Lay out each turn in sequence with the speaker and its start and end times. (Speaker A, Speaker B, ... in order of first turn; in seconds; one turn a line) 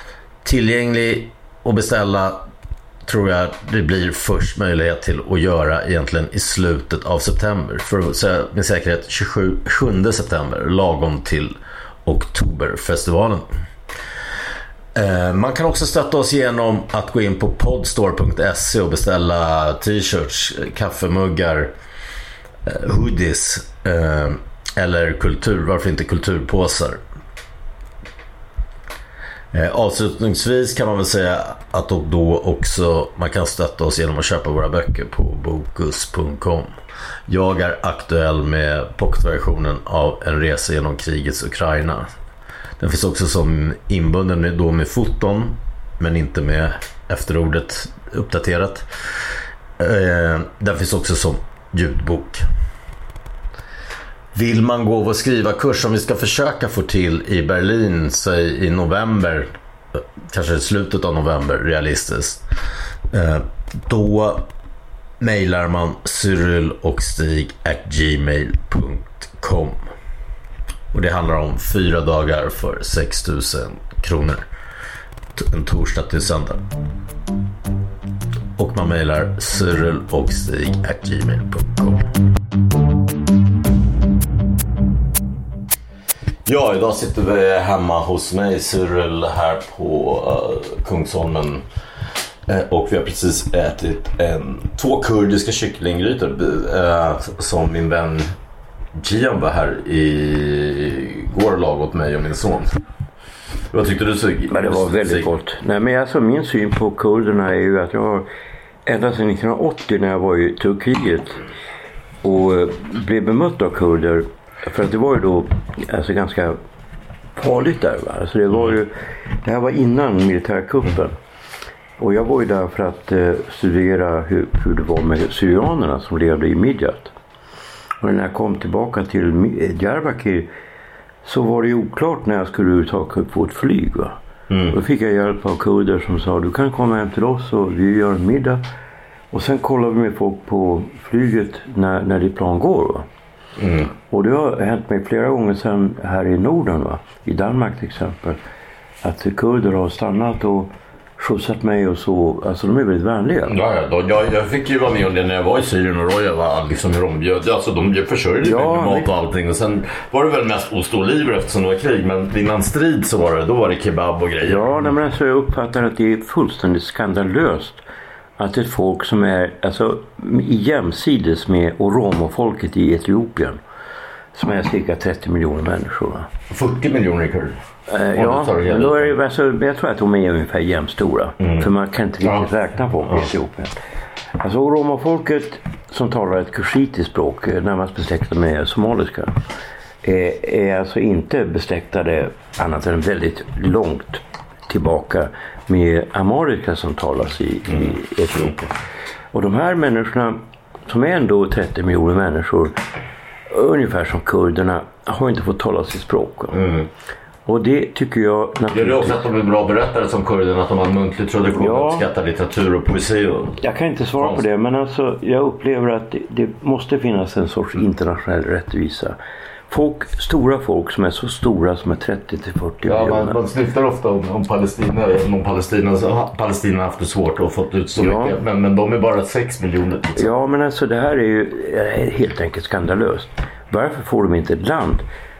Speaker A: 0.4-2.4
Speaker A: 3.0-13.4
Speaker A: 14.9-21.7
Speaker A: 22.6-27.0
Speaker A: 29.5-36.7
Speaker A: 37.3-42.1
Speaker A: 42.8-48.9
Speaker A: 49.8-52.5
Speaker A: 54.3-62.4
Speaker A: 63.1-64.5
Speaker A: 65.2-69.8
Speaker A: 70.9-74.4
Speaker A: 75.3-76.7
Speaker A: 78.6-82.1
Speaker A: 86.5-91.6
Speaker A: 92.5-98.3
Speaker A: 99.0-102.8
Speaker A: 103.7-105.3
Speaker B: 104.5-108.3
Speaker B: 108.8-111.4
Speaker B: 112.2-116.6
Speaker B: 117.3-121.2
Speaker B: 122.0-127.1
Speaker B: 128.0-130.5
Speaker B: 131.2-134.2
Speaker A: 134.5-134.8
Speaker B: 134.7-138.6
Speaker B: 139.3-143.1
Speaker A: 143.6-143.9
Speaker B: 144.1-148.4
Speaker B: 149.0-153.5
Speaker A: 153.5-164.7
Speaker B: 158.4-159.1
Speaker B: 164.4-167.8
Speaker B: 168.4-173.6
Speaker B: 174.3-176.3
Speaker A: 176.5-177.6
Speaker B: 177.9-183.8
Speaker A: 178.1-179.1
Speaker A: 182.2-182.5
Speaker B: 184.4-189.4
Speaker B: 190.0-198.7
Speaker B: 199.3-202.8
Speaker B: 203.5-206.6
Speaker A: 206.5-206.9
Speaker B: 207.4-209.2
Speaker A: 208.7-213.6
Speaker B: 211.6-212.0
Speaker B: 213.6-219.2
Speaker B: 219.7-223.4
Speaker A: 222.8-230.3
Speaker B: 228.0-228.3
Speaker B: 230.2-235.0